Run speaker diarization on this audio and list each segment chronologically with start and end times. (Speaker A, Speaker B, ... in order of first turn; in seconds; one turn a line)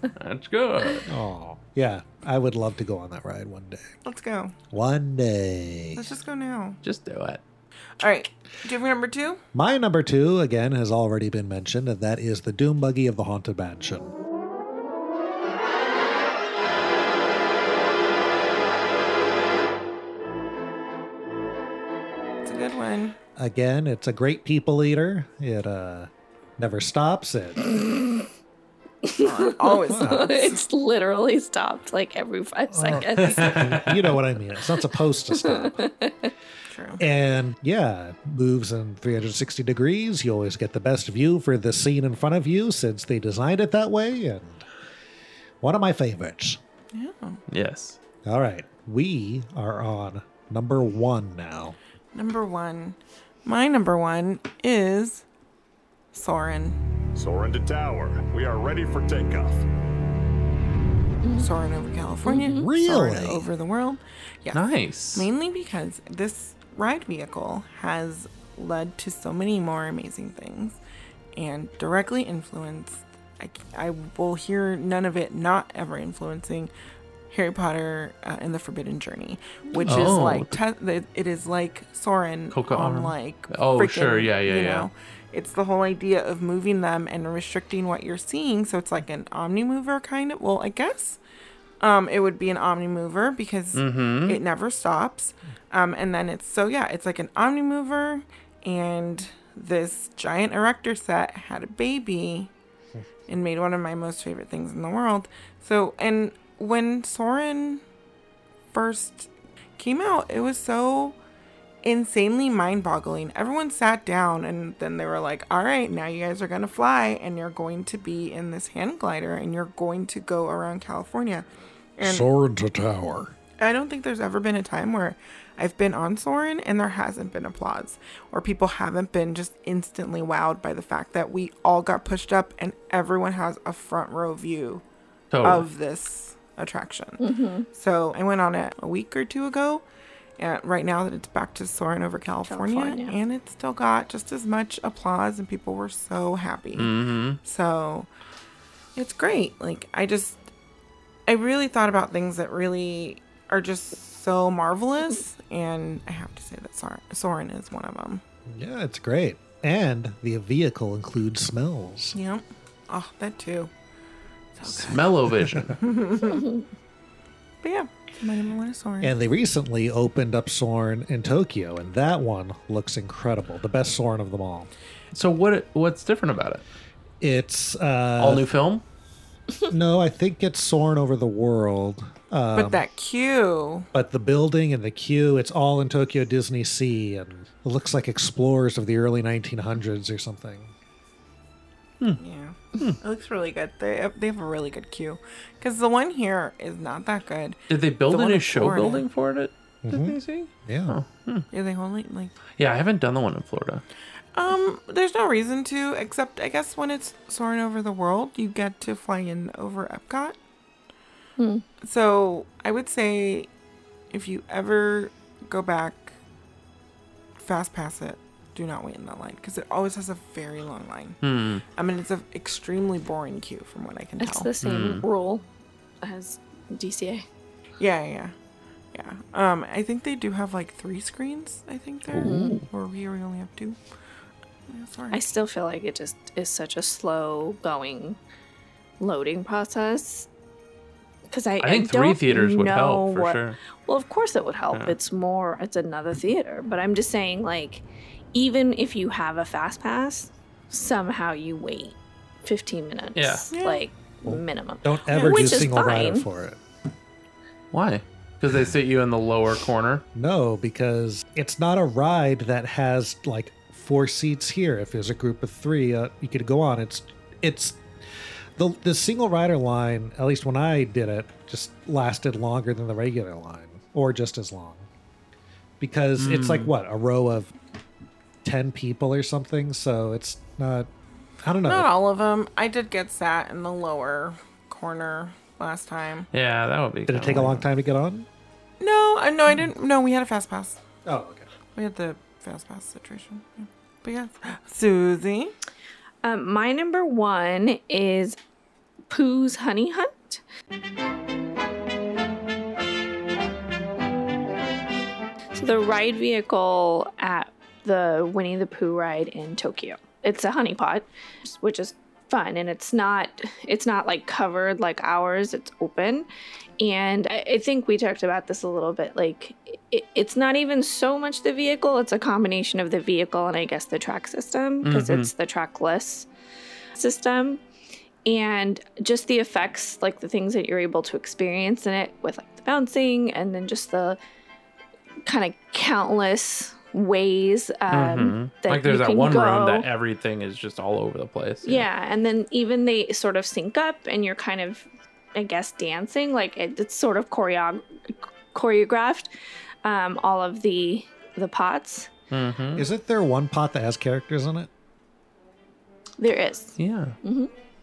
Speaker A: 0.2-1.1
Speaker B: 1.1-3.9
Speaker C: 4.0-4.5
Speaker B: 4.7-6.1
Speaker C: 6.0-6.8
Speaker A: 6.8-7.4
Speaker C: 8.0-9.4
Speaker B: 9.5-14.2
Speaker C: 22.4-23.2
Speaker B: 23.4-27.6
Speaker D: 27.7-28.2
Speaker D: 29.1-33.5
Speaker C: 29.2-30.6
Speaker B: 29.9-30.3
Speaker B: 32.7-35.8
Speaker A: 33.2-34.1
Speaker D: 35.4-36.3
Speaker C: 36.7-37.0
Speaker B: 37.0-44.7
Speaker B: 45.6-46.6
Speaker C: 46.9-47.4
Speaker A: 47.5-48.0
Speaker B: 48.2-51.8
Speaker C: 52.1-55.2
Speaker C: 56.1-56.8
Speaker E: 57.2-59.6
Speaker C: 61.4-64.6
Speaker D: 62.2-62.7
Speaker B: 62.4-63.5
Speaker A: 64.5-65.3
Speaker C: 65.1-70.8
Speaker C: 71.3-76.7
Speaker C: 77.3-91.2
Speaker D: 79.7-80.1
Speaker A: 79.9-80.6
Speaker A: 82.5-84.9
Speaker C: 91.8-102.5
Speaker A: 93.7-94.4
Speaker C: 103.3-107.8
Speaker C: 108.7-111.2
Speaker C: 111.8-121.5
Speaker C: 122.0-122.3
Speaker B: 122.0-123.3
Speaker C: 123.6-134.8
Speaker A: 135.3-135.7
Speaker C: 135.4-139.8
Speaker D: 137.2-137.7
Speaker C: 140.4-148.1
Speaker D: 142.5-143.2
Speaker A: 146.8-147.4
Speaker C: 149.0-150.4
Speaker C: 151.3-158.2
Speaker B: 158.5-162.2
Speaker C: 162.2-163.7
Speaker C: 164.6-165.1
Speaker A: 164.6-165.8
Speaker C: 165.7-166.5
Speaker C: 167.6-169.1
Speaker B: 169.0-174.7
Speaker A: 175.1-176.6
Speaker B: 177.2-178.5
Speaker A: 178.2-178.8
Speaker B: 179.7-182.8
Speaker C: 182.5-183.9
Speaker B: 183.9-190.7
Speaker C: 192.2-199.0
Speaker A: 197.7-201.5
Speaker B: 199.8-201.0
Speaker C: 201.5-202.3
Speaker A: 202.6-203.8
Speaker C: 204.3-210.4
Speaker D: 211.4-211.6
Speaker C: 211.8-213.5
Speaker C: 214.1-216.2
Speaker C: 217.4-221.2
Speaker A: 221.2-221.6
Speaker C: 221.8-224.5
Speaker D: 224.2-225.4
Speaker A: 224.6-225.0
Speaker D: 226.0-227.2
Speaker C: 227.8-228.3
Speaker C: 228.9-233.8
Speaker A: 232.1-232.7
Speaker D: 232.2-232.6
Speaker C: 234.7-235.2
Speaker D: 235.1-238.2
Speaker D: 239.0-240.3
Speaker D: 241.3-256.3
Speaker A: 241.6-243.6
Speaker A: 253.2-253.5
Speaker C: 253.5-253.8
Speaker B: 254.2-256.6
Speaker A: 257.7-260.1
Speaker B: 260.1-267.8
Speaker B: 268.6-274.9
Speaker B: 275.8-277.5
Speaker A: 276.2-276.7
Speaker B: 278.4-280.9
Speaker B: 281.4-281.9
Speaker C: 281.6-286.3
Speaker A: 286.3-287.7
Speaker B: 287.1-288.3
Speaker C: 288.8-290.8
Speaker B: 291.1-291.5
Speaker C: 291.8-295.5
Speaker D: 296.2-298.4
Speaker D: 299.1-300.4
Speaker D: 305.6-316.3
Speaker D: 316.8-326.3
Speaker A: 324.8-325.3
Speaker D: 326.9-327.6
Speaker D: 328.3-334.2
Speaker D: 335.3-339.9
Speaker A: 337.9-341.9
Speaker D: 341.6-349.3
Speaker D: 349.8-352.1
Speaker A: 352.3-352.9
Speaker B: 352.8-354.7
Speaker D: 356.2-357.5
Speaker A: 356.8-357.2